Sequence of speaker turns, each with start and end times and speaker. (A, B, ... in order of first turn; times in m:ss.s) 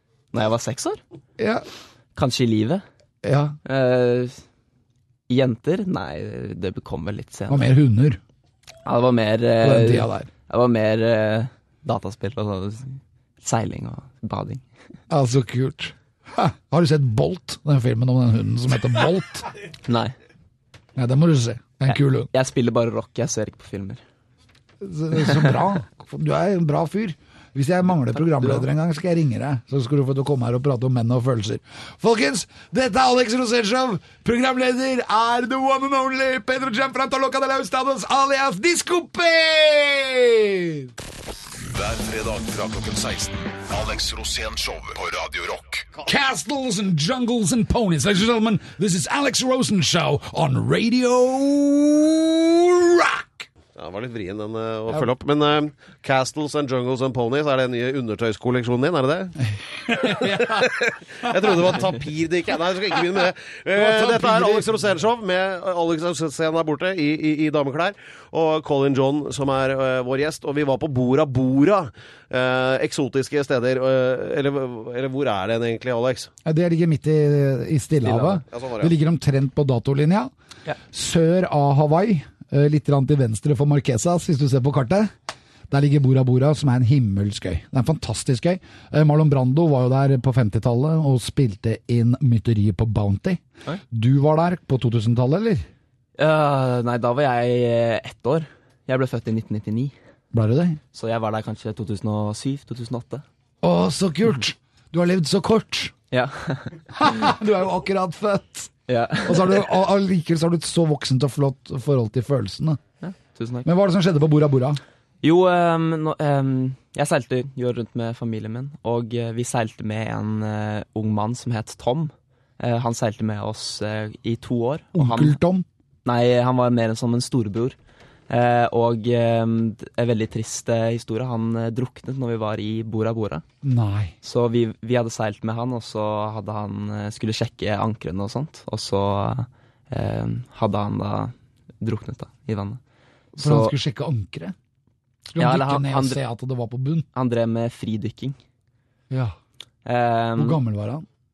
0:00.3-0:01.0 A
0:01.4-0:01.6 B
0:02.2-0:02.8 A
0:03.2-0:03.6 B
0:03.6-0:04.4 A
0:05.3-0:07.7 A
0:07.5-0:08.2 B
0:08.8-0:14.6 A
0:09.6-0:10.3 B
0:15.1-0:19.5 B
0:19.8-0:20.1 A
0:21.0-0:22.3 B
0:21.9-0:24.0 A
0:24.8-0:40.9 B
0:25.3-0:25.5 A
0:28.4-0:28.6 A
0:41.5-0:45.9 C
0:46.0-0:53.5 B
0:53.8-0:59.4 D
0:59.5-1:01.5 B
1:00.1-1:16.3 D
1:03.8-1:04.7 B
1:16.4-1:20.3 B
1:18.0-1:18.4 A
1:18.5-1:18.9 D
1:20.9-1:25.1 B
1:25.7-1:35.6 B
1:36.2-1:39.9 A
1:40.3-1:40.8 B
1:40.9-1:43.2 A
1:43.6-1:45.9 B
1:46.1-1:46.8 A
1:46.9-1:48.7 B
1:48.9-1:49.6 A
1:49.2-1:52.8 B
1:53.0-1:53.7 A
1:53.6-1:54.8 B
1:55.2-2:05.4 A
2:04.9-2:05.7 B
2:06.0-2:07.8 A
2:08.3-2:13.4 A
2:13.6-2:14.2 B
2:14.2-2:22.8 A
2:23.4-2:24.6 B
2:23.4-2:23.8 A
2:25.3-2:27.1 B
2:25.4-2:26.2 A
2:27.2-2:28.4 A
2:29.1-2:29.4 B
2:29.8-2:30.6 A
2:30.4-2:31.1 B